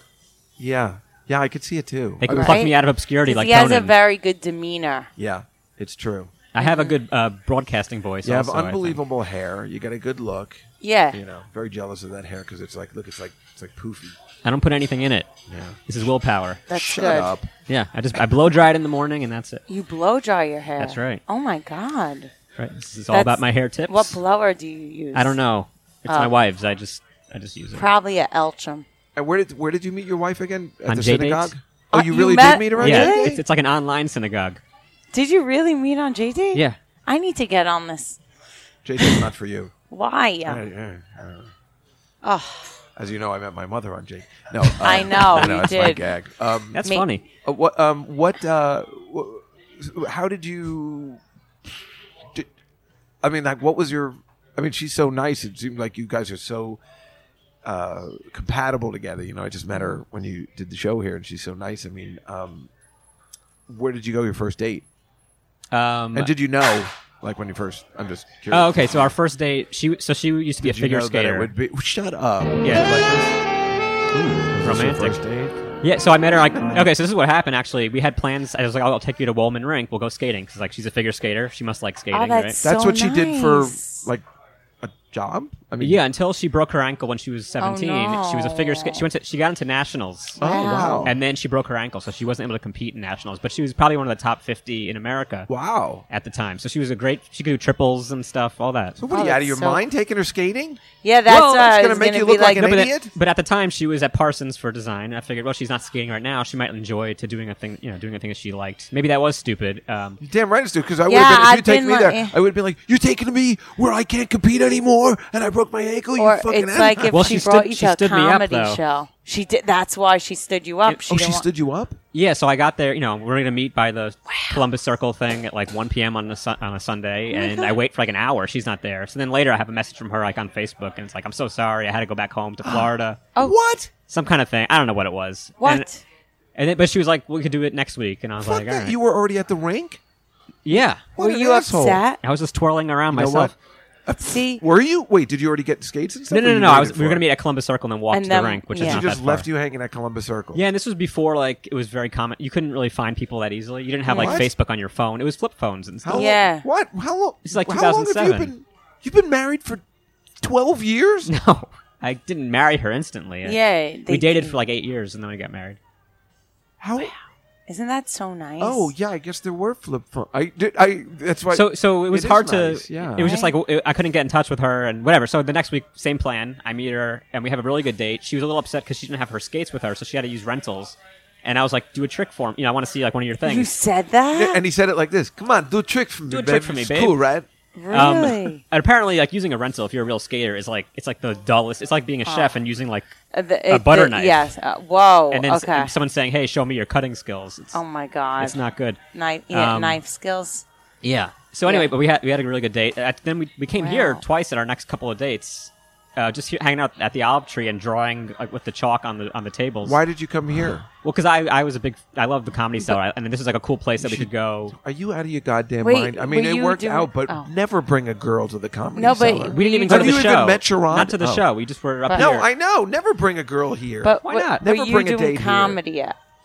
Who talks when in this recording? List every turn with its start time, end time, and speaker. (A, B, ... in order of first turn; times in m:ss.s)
0:00.6-0:02.6 A
0:02.2-0:03.9 B
0:02.3-0:05.1 C
0:05.2-0:06.3 A
0:06.5-0:09.0 B
0:06.6-0:07.0 C
0:08.2-0:14.2 A
0:10.8-0:11.2 C
0:14.4-0:15.3 B
0:15.5-0:15.8 A
0:15.9-0:16.6 B
0:16.7-0:17.3 C
0:16.7-0:17.5 A
0:17.7-0:19.6 B
0:19.7-0:22.3 C
0:20.8-0:21.2 B
0:22.6-0:24.2 B
0:23.1-0:25.4 C
0:25.1-0:27.9 B
0:26.1-0:26.3 C
0:27.7-0:28.9 C
0:29.1-0:33.4 A
0:30.9-0:31.5 B
0:31.9-0:33.3 C
0:32.8-0:34.6 B
0:35.1-0:38.2 C
0:38.8-0:39.7 A
0:39.9-0:40.6 C
0:40.4-0:41.5 A
0:42.2-0:42.7 C
0:43.0-0:46.8 A
0:44.8-0:46.1 C
0:45.1-0:45.4 B
0:46.7-0:47.2 B
0:47.4-0:51.7 A
0:53.2-0:56.8 A
0:57.6-1:02.7 A
1:03.7-1:04.9 A
1:05.7-1:06.3 B
1:06.1-1:09.1 A
1:08.5-1:11.5 B
1:10.6-1:13.3 A
1:12.6-1:13.0 B
1:14.1-1:15.6 A
1:14.6-1:15.2 B
1:15.8-1:22.6 B
1:16.6-1:16.9 A
1:22.1-1:24.1 C
1:22.6-1:24.2 A
1:24.8-1:26.0 A
1:25.8-1:35.5 B
1:27.6-1:29.0 C
1:30.4-1:31.1 C
1:30.4-1:31.2 A
1:35.5-1:36.0 A
1:36.1-1:39.0 B
1:39.0-1:43.1 A
1:39.1-1:39.8 C
1:41.0-1:42.7 C
1:41.3-1:41.8 B
1:42.5-1:50.2 B
1:50.2-1:57.3 A
1:51.1-1:52.3 C
1:56.2-2:01.5 C
1:57.1-1:58.8 B
2:01.1-2:02.0 A
2:02.1-2:13.3 B
2:04.3-2:04.6 C
2:07.3-2:07.8 C
2:12.6-2:13.9 A
2:14.1-2:15.9 B
2:15.6-2:16.0 C
2:16.6-2:19.0 B
2:18.4-2:20.0 A
2:20.6-2:21.1 B
2:21.1-2:22.0 A
2:21.2-2:22.2 C
2:22.2-2:23.5 B
2:23.1-2:23.5 A
2:24.0-2:27.2 A
2:24.2-2:24.6 C
2:26.3-2:29.4 B
2:28.1-2:29.0 C
2:28.8-2:30.6 A
2:30.5-2:36.3 B
2:34.0-2:34.4 C
2:34.1-2:34.5 A
2:36.0-2:39.8 A
2:36.1-2:36.6 C
2:37.4-2:38.5 B
2:40.4-2:41.3 A
2:41.3-2:45.8 B
2:43.4-2:44.5 C
2:46.8-2:47.1 A
2:47.7-2:48.9 C
2:48.6-2:53.3 A
2:51.5-3:03.7 B
2:53.2-2:53.5 C
3:03.4-3:04.6 C
3:04.3-3:07.5 A
3:06.3-3:07.2 B
3:07.8-3:08.6 C
3:07.9-3:13.1 B
3:12.2-3:12.6 C
3:13.3-3:15.9 C
3:13.7-3:14.5 B
3:15.3-3:17.8 B
3:17.7-3:18.6 C
3:18.4-3:19.0 B
3:19.1-3:20.6 C
3:19.5-3:20.0 B
3:21.0-3:30.0 B
3:23.8-3:24.2 C
3:29.8-3:30.9 A
3:31.0-3:34.7 B
3:34.0-3:41.5 A
3:35.8-3:37.5 C
3:39.0-3:40.3 C
3:39.5-3:42.5 B
3:42.1-3:45.8 A
3:44.0-3:46.2 C
3:44.2-3:44.6 B